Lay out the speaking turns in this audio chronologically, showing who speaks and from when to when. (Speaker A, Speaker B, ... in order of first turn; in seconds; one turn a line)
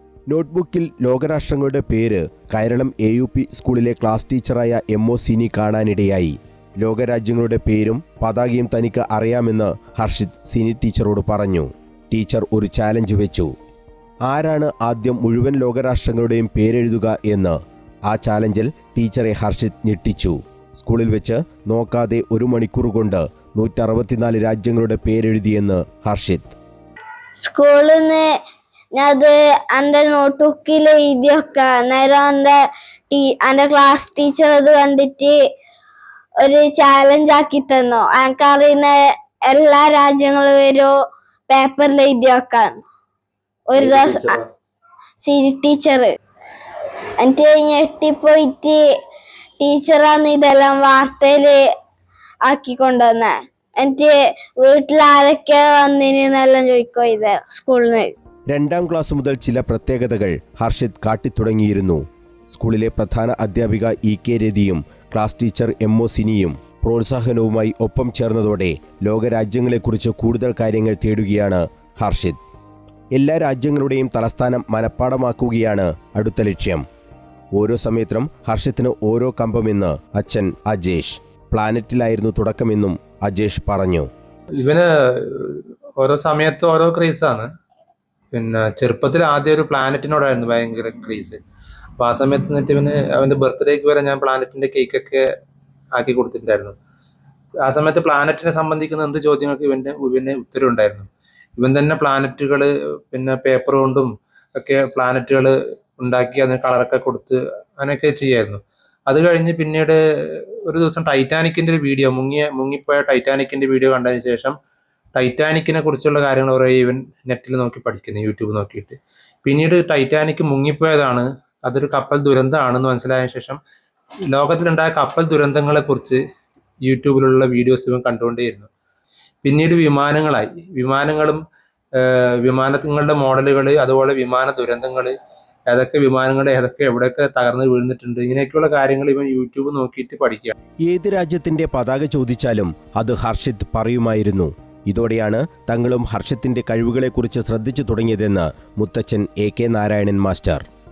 Speaker A: 0.3-13.5
Speaker A: 14.3-17.6
Speaker A: 18.1-26.6
Speaker B: 27.4-28.3
Speaker B: 28.9-35.4
Speaker B: 36.4-40.9
Speaker B: 41.5-42.8
Speaker B: 43.7-44.4
Speaker A: 43.8-44.4
Speaker B: 45.2-46.1
Speaker B: 47.2-48.8
Speaker B: 49.6-51.6
Speaker B: 52.5-58.1
Speaker A: 58.5-72.4
Speaker A: 73.2-76.8
Speaker A: 77.5-84.1
Speaker C: 84.6-87.5
Speaker C: 88.3-91.4
Speaker C: 92.0-95.2
Speaker C: 95.9-96.8
Speaker C: 97.6-114.5
Speaker C: 115.1-123.6
Speaker C: 124.3-126.2
Speaker C: 126.8-128.7
Speaker C: 129.4-131.4
Speaker C: 132.0-135.1
Speaker C: 135.7-140.5
Speaker A: 140.8-150.6